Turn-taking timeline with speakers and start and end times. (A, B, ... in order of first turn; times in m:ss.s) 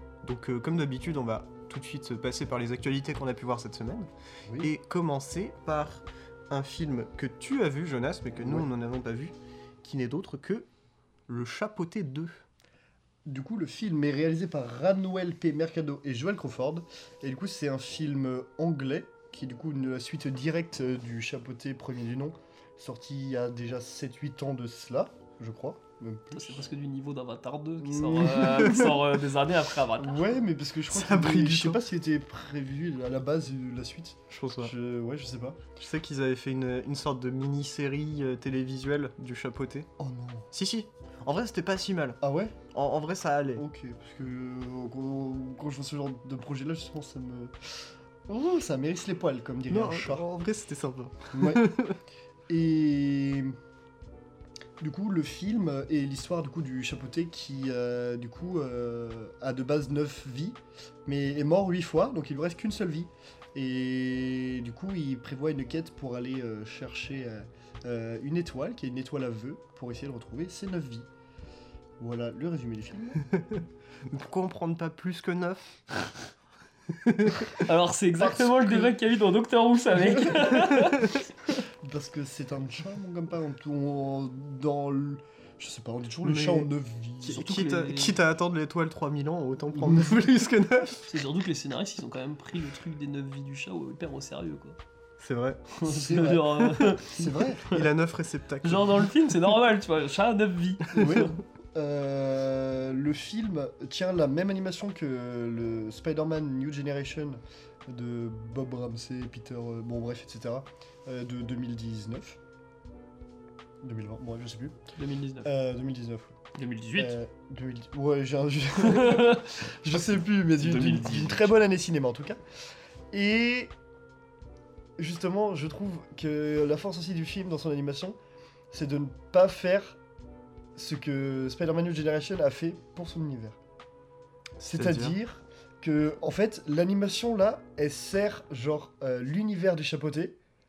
0:00.2-0:10.7 A
0:04.4-0:04.7 B
0:08.4-0:08.7 B
0:11.3-0:12.4 A
0:13.2-0:26.6 B
0:26.3-0:30.3 C
0:27.8-0:29.0 B
0:28.5-0:28.9 A
0:30.0-0:35.7 B
0:30.9-0:31.8 A
0:34.3-0:34.7 A
0:35.8-0:39.9 A
0:40.0-0:40.5 B
0:40.5-0:42.2 A
0:42.2-0:42.6 B
0:42.7-0:43.6 A
0:43.6-0:47.5 B
0:48.3-0:50.3 B
0:49.7-0:52.0 A
0:51.3-0:51.7 B
0:52.5-0:53.6 B
0:54.8-1:11.1 B
1:12.0-1:13.2 B
1:13.3-1:15.9 A
1:16.9-1:17.6 A
1:17.6-1:21.6 C
1:18.1-1:18.9 B
1:20.1-1:20.6 B
1:20.7-1:21.0 A
1:21.8-1:27.4 B
1:26.3-1:26.6 C
1:27.2-1:31.1 A
1:27.3-1:28.2 C
1:31.0-1:34.8 C
1:35.2-1:35.6 A
1:35.8-1:37.8 C
1:35.9-1:37.7 B
1:37.7-1:39.1 A
1:38.6-1:41.3 C
1:40.9-1:52.4 B
1:53.8-1:54.8 B
1:55.0-1:55.5 C
1:55.4-1:56.4 B
1:56.6-1:57.1 C
1:57.0-2:02.4 B
1:58.8-1:59.6 C
2:00.6-2:01.6 C
2:03.1-2:03.7 B
2:05.0-2:08.2 B
2:08.7-2:10.0 B
2:10.8-2:13.6 B
2:14.6-2:20.4 B
2:14.7-2:15.2 A